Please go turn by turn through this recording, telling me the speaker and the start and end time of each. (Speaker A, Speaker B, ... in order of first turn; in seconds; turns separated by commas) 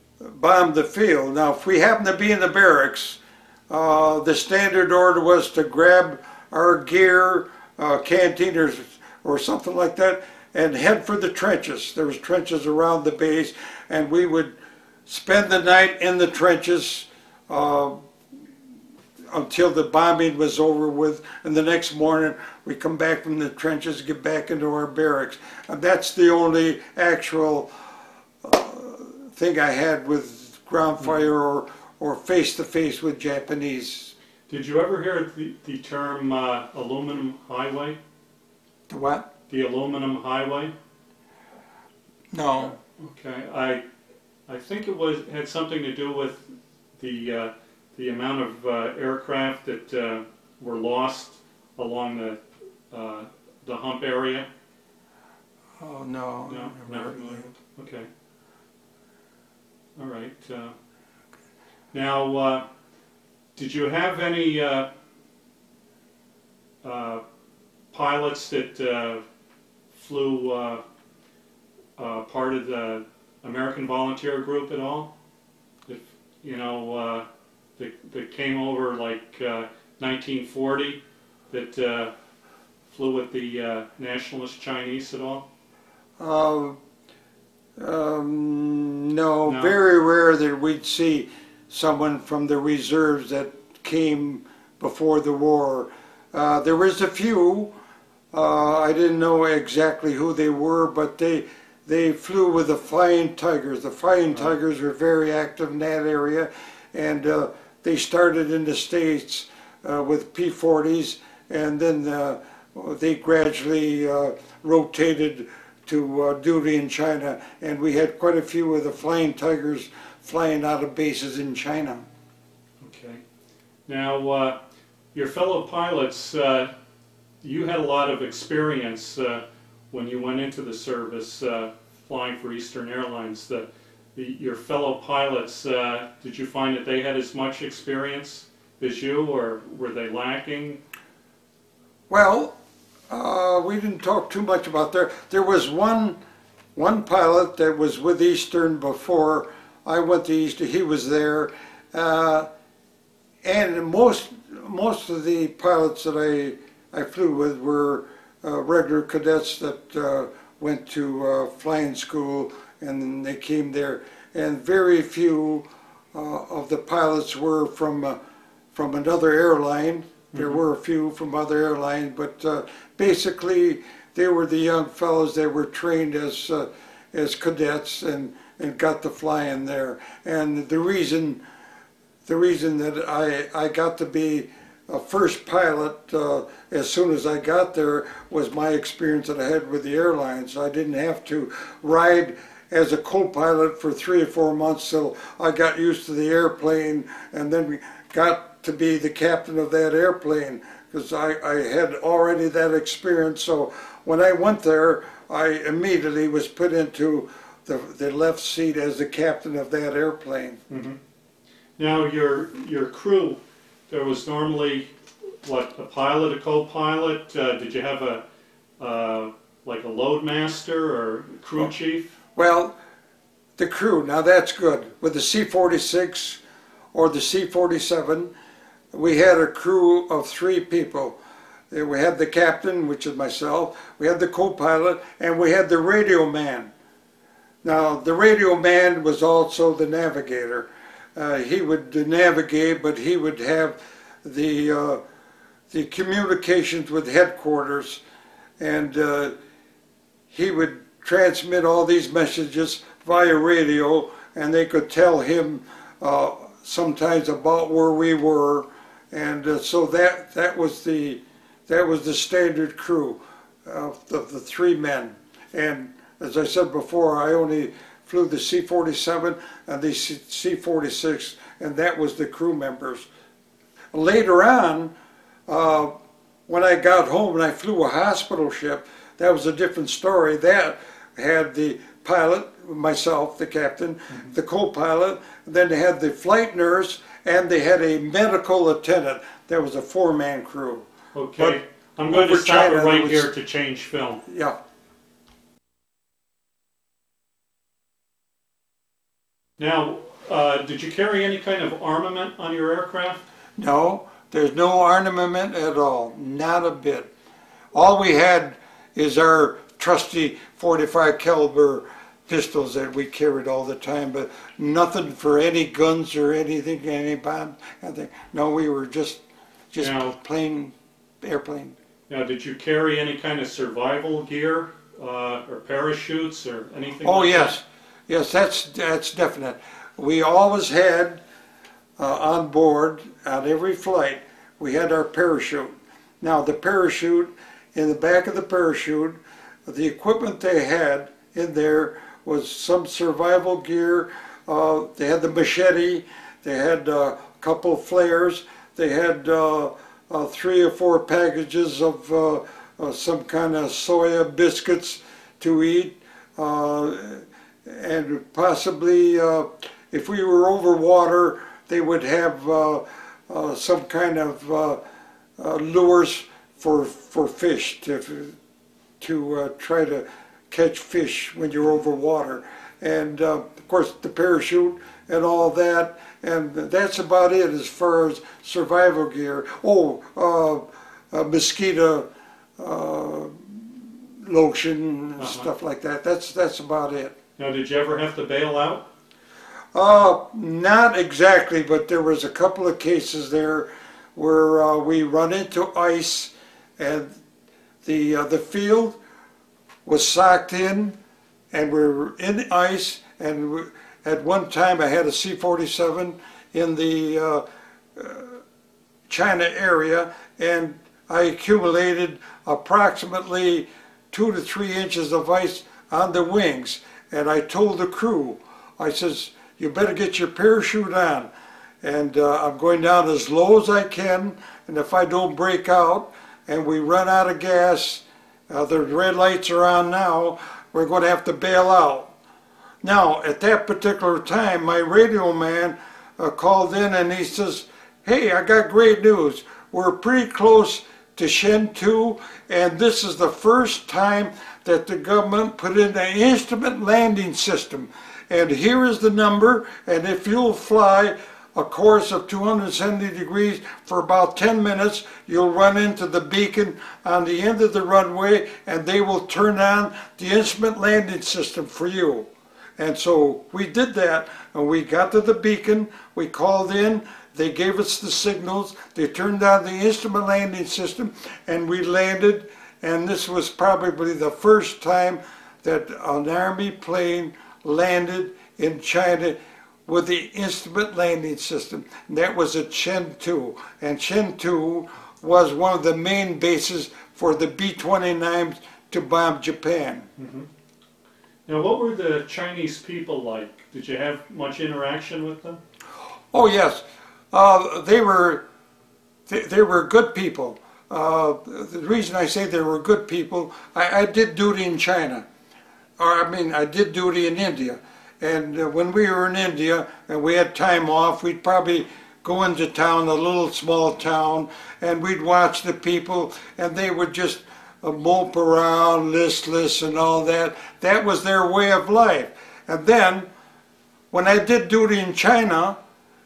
Speaker A: 0.2-3.2, Speaker A: 3.7-14.5, Speaker A: 15.1-18.0, Speaker A: 19.3-27.7, Speaker A: 28.4-34.1, Speaker B: 34.5-38.0, Speaker A: 38.9-39.3, Speaker B: 39.5-40.7, Speaker A: 42.3-42.8, Speaker B: 43.0-43.8, Speaker B: 44.5-46.4, Speaker B: 47.0-52.4, Speaker B: 52.9-54.5, Speaker A: 55.8-57.5, Speaker B: 56.5-58.1, Speaker B: 60.0-60.7, Speaker B: 61.9-62.6, Speaker B: 63.5-64.9, Speaker B: 66.8-67.2, Speaker B: 67.9-69.2, Speaker B: 69.9-70.8, Speaker B: 72.0-75.1, Speaker B: 75.8-77.2, Speaker B: 77.8-82.1, Speaker B: 82.9-85.5, Speaker A: 86.2-86.8, Speaker A: 87.8-97.7, Speaker B: 89.5-89.7, Speaker A: 98.3-122.0, Speaker B: 122.8-123.2, Speaker B: 123.9-124.6, Speaker B: 125.1-126.7, Speaker B: 127.4-140.8, Speaker A: 142.1-142.6, Speaker A: 143.1-146.2, Speaker A: 146.8-152.5, Speaker A: 153.4-168.2, Speaker A: 168.7-181.4, Speaker A: 182.2-210.6, Speaker B: 210.7-211.0, Speaker B: 211.8-214.9, Speaker B: 215.4-218.2, Speaker B: 218.8-222.1, Speaker A: 222.3-222.7, Speaker A: 223.6-226.4, Speaker A: 226.9-228.3, Speaker A: 228.9-231.2, Speaker A: 231.7-236.7, Speaker A: 237.6-245.0, Speaker A: 245.7-248.0, Speaker A: 248.6-249.3, Speaker A: 250.3-273.1, Speaker A: 273.9-274.9, Speaker A: 275.5-275.9, Speaker A: 276.5-290.9, Speaker B: 291.1-294.2, Speaker A: 291.4-293.3, Speaker A: 294.3-294.6, Speaker B: 299.6-303.2, Speaker A: 303.6-307.1, Speaker A: 307.7-319.2, Speaker A: 319.7-321.7, Speaker B: 319.8-320.1, Speaker B: 322.1-327.6, Speaker A: 327.0-331.2, Speaker A: 332.0-364.8, Speaker A: 365.4-368.4, Speaker A: 369.0-382.1, Speaker A: 382.6-387.1, Speaker B: 385.2-385.5, Speaker B: 387.4-388.8, Speaker A: 389.7-397.1, Speaker A: 397.8-398.9, Speaker A: 399.8-400.9, Speaker A: 401.5-407.4, Speaker A: 407.9-408.4, Speaker A: 409.1-421.3, Speaker A: 421.8-432.1, Speaker A: 432.8-462.3, Speaker A: 462.8-490.1, Speaker B: 490.2-490.5, Speaker B: 491.4-495.6, Speaker A: 496.3-498.4, Speaker A: 499.3-505.2, Speaker A: 506.0-523.3, Speaker A: 524.1-525.8